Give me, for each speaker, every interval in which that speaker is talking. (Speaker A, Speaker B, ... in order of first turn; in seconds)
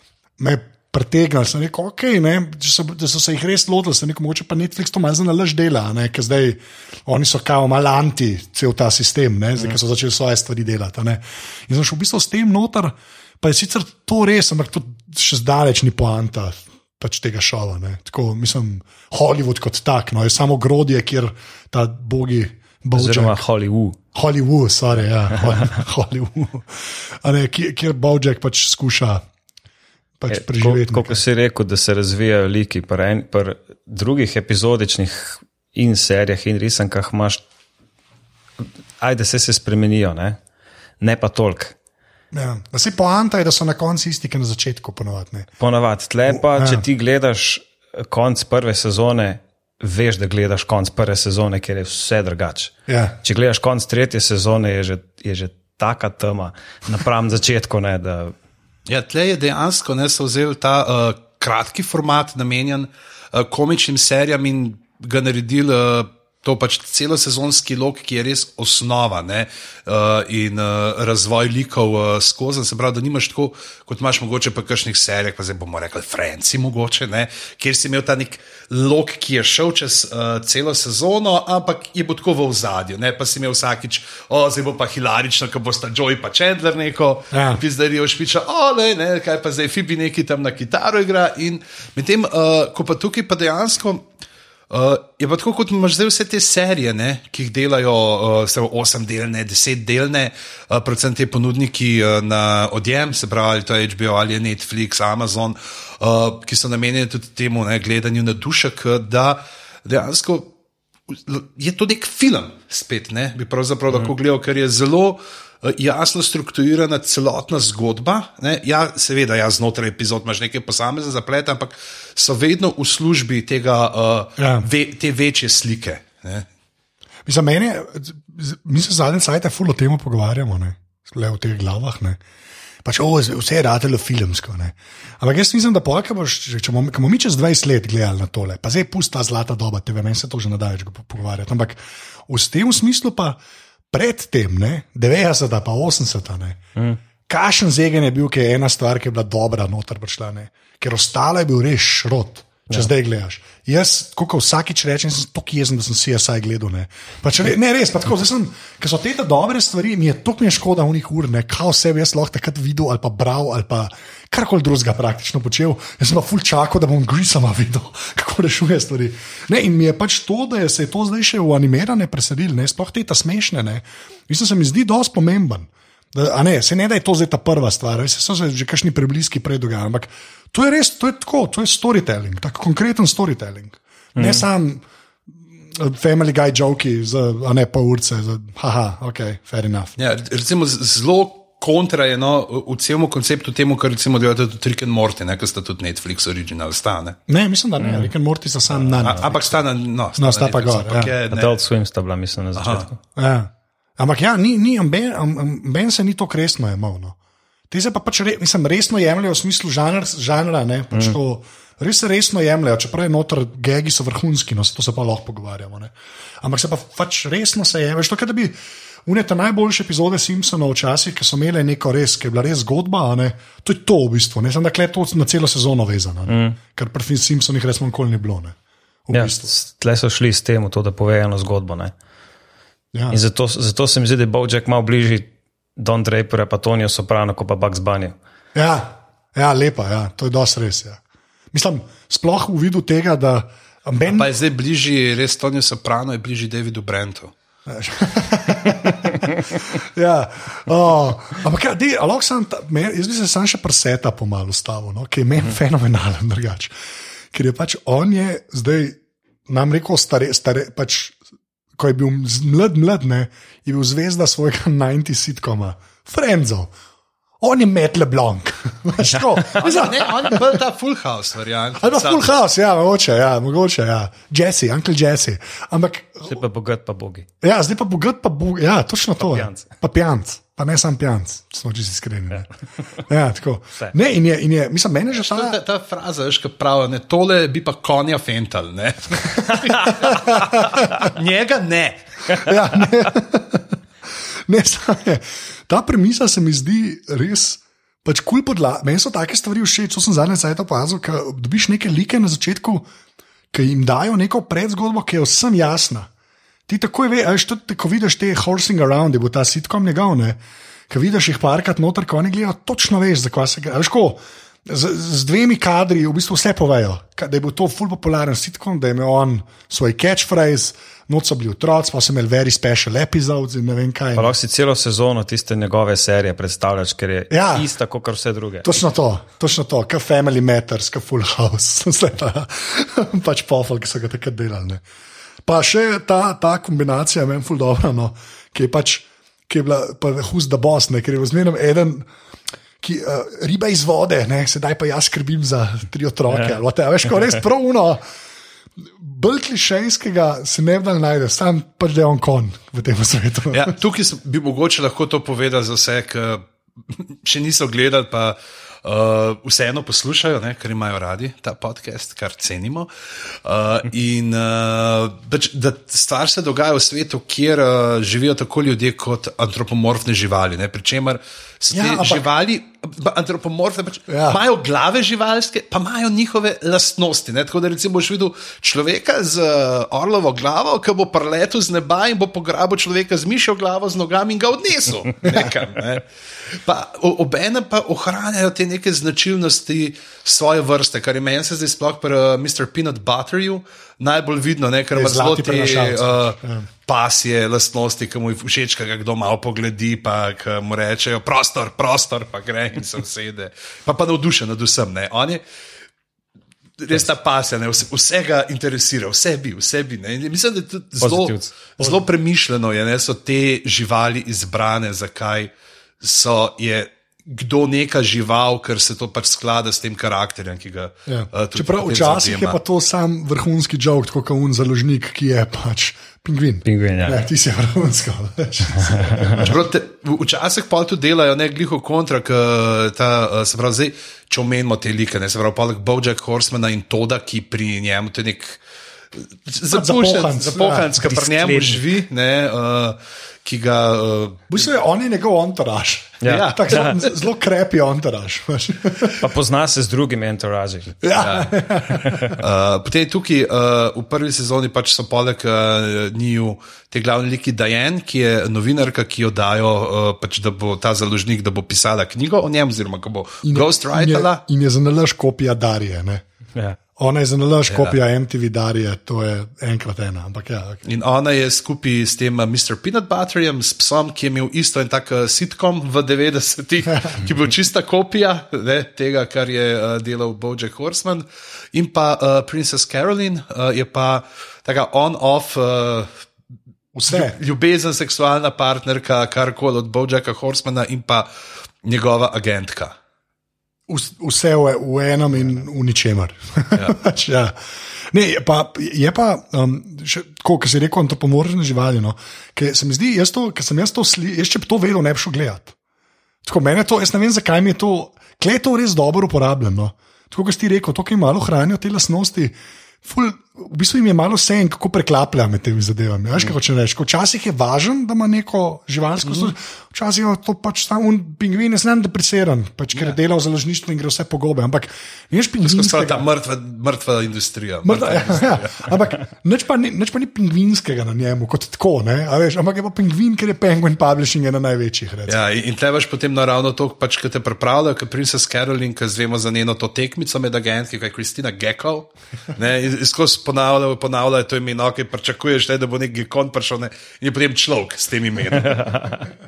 Speaker A: 0.4-23.4, 24.1-29.2, 30.2-31.2, 42.3-45.5, 46.3-46.9, 52.9-53.2, 87.3-87.6, 124.4-124.7, 127.3-132.2, 132.8-143.4, 143.9-146.6, 147.3-184.8, 185.8-190.0, 197.3-199.6, 200.2-201.2, 203.2-207.2, 207.7-228.6, 229.1-229.5, 232.9-233.2, 238.6-241.0, 241.5-244.3, 247.7-256.7, 257.3-261.2, 261.8-266.7, 267.4-270.4, 271.8-276.4, 277.4-282.5, 283.1-285.6, 289.5-290.9, 292.3-293.6, 294.5-302.9, 303.5-306.1, 306.7-324.3, 327.3-327.7, 328.6-334.8, 335.4-342.1, 342.8-348.0, 349.0-353.8, 371.7-372.3, 374.1-374.4, 394.9-396.7, 421.1-429.5, 439.6-441.0, 444.5-449.2, 451.0-452.4, 463.4-466.2, 467.0-470.9, 486.9-487.4, 493.9-497.6, 498.1-505.8, 506.4-526.2, 527.8-535.4
Speaker B: 23.0-24.0, 30.3-37.4, 39.0-40.4, 41.0-41.8, 45.6-58.3, 184.2-184.5, 197.8-198.1, 201.3-203.0, 210.9-211.2, 226.3-226.6, 229.1-231.9, 233.1-238.2, 276.3-277.3, 279.2-279.7, 324.2-328.8, 411.0-411.6, 426.6-427.2, 441.0-441.8, 446.2-447.0, 449.2-451.0
Speaker C: 58.9-94.1, 94.7-110.5, 111.1-126.5, 190.0-197.2, 199.0-201.6, 202.6-202.9, 244.1-247.3, 269.6-272.3, 285.1-292.0, 353.5-405.4, 406.8-422.6, 429.4-438.6, 439.1-444.7, 446.2-447.0, 451.1-464.4, 467.7-468.0, 470.9-486.1, 487.1-491.3, 491.8-493.0, 525.6-528.9, 535.3-549.1